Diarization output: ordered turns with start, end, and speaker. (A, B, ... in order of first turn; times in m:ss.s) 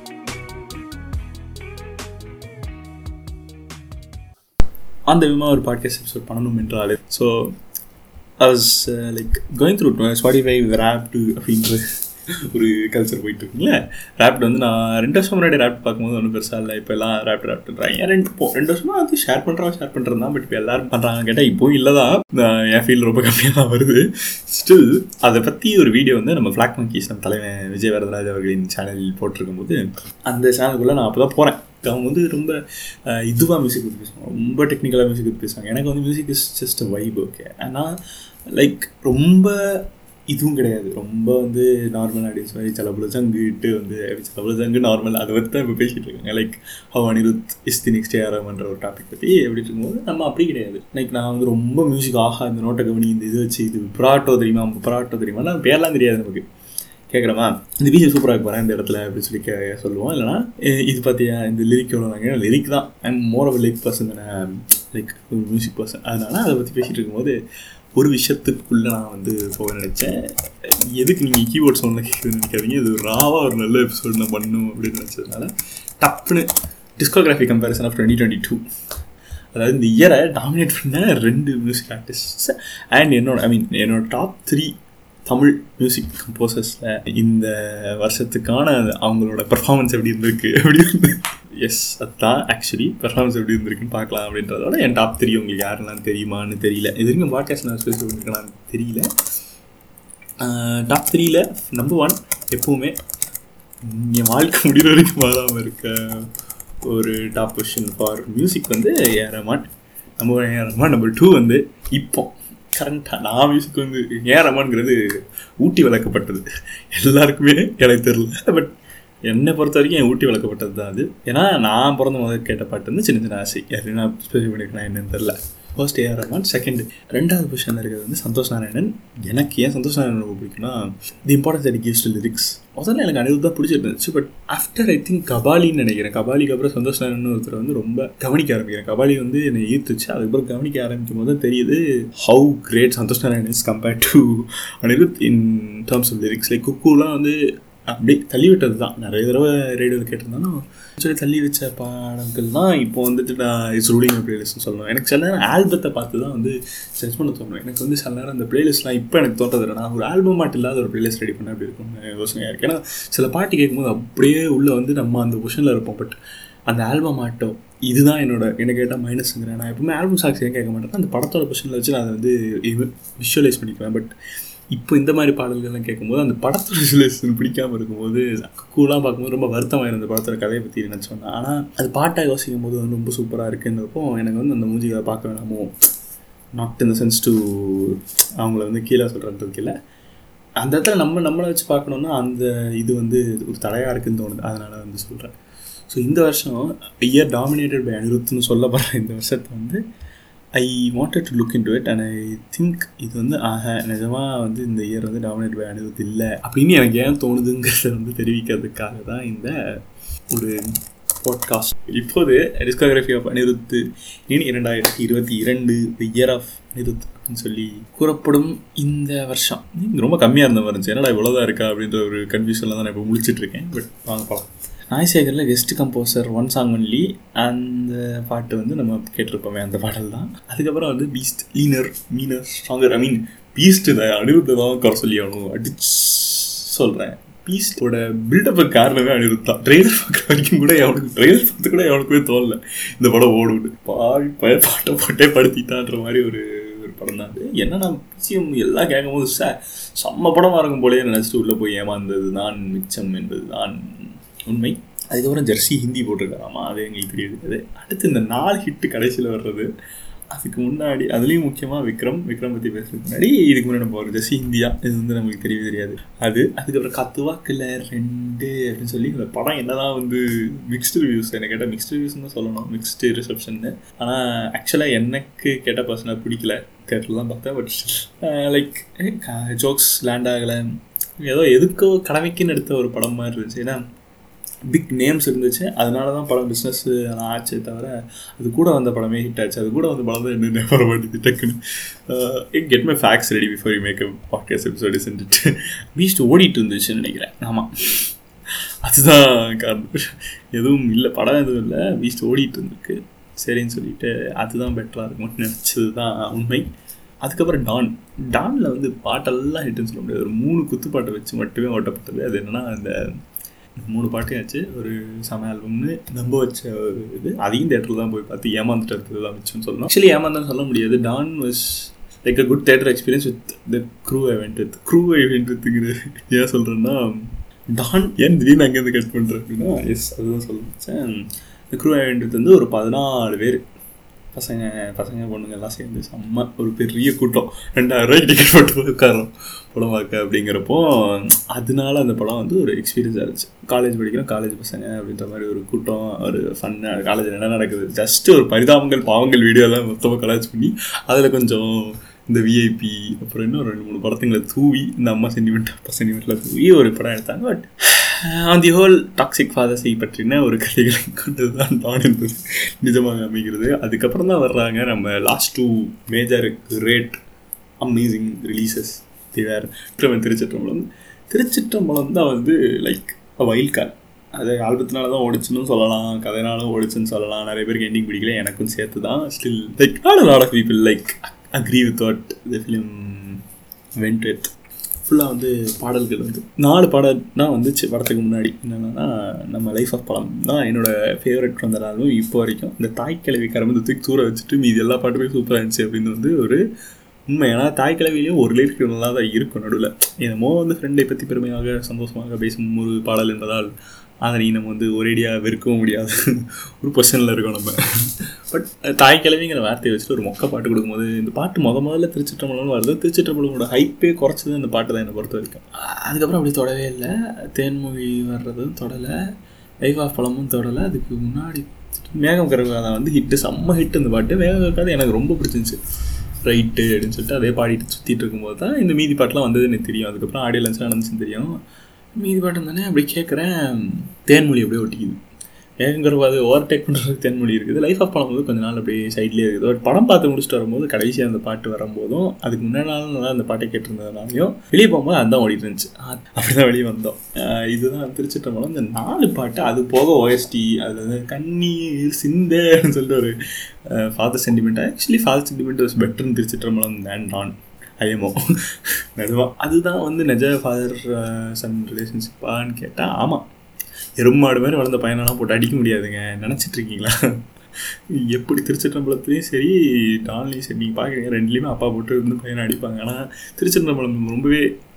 0:05.1-0:07.5 A
0:08.4-0:11.8 A
0:12.5-0:32.5 A
0:33.1-0:37.9 A
0:38.5-0:39.5 A
0:40.3-0:56.4 A
0:57.1-1:07.4 A
1:08.0-1:10.1 A
1:10.9-1:16.5 A
1:17.0-1:18.6 A
1:19.5-1:24.7 A
1:25.3-1:39.0 A
1:40.4-1:42.9 A
1:43.8-1:46.2 A
1:46.9-1:55.0 A
1:55.6-1:58.7 A
1:59.3-2:27.4 A
2:27.9-2:46.2 A
2:46.7-2:54.1 A
2:54.7-3:05.7 A
3:06.6-3:09.7 A
3:10.6-3:15.3 A
3:15.9-3:19.8 A
3:20.5-3:29.5 A
3:31.2-4:13.8 A
4:14.5-4:19.7 A
4:20.3-4:40.6 A
4:41.2-4:43.8 A
4:44.7-4:58.1 A
4:58.8-5:06.6 A
5:07.2-5:13.0 A
5:13.8-5:27.1 A
5:27.7-5:31.1 A
5:31.7-5:33.6 A
5:34.3-6:07.2 A
6:07.8-6:23.4 A
6:24.0-6:24.5 A
6:25.0-6:36.6 A
6:37.3-6:43.7 A
6:44.2-6:46.1 A
6:46.8-6:47.7 A
6:48.5-6:59.1 A
6:59.8-7:05.8 A
7:06.4-7:11.5 A
7:12.2-7:15.2 A
7:15.8-7:33.3 A
7:33.9-7:38.4 A
7:39.2-7:43.4 A
7:44.2-7:47.1 A
7:48.3-7:54.6 A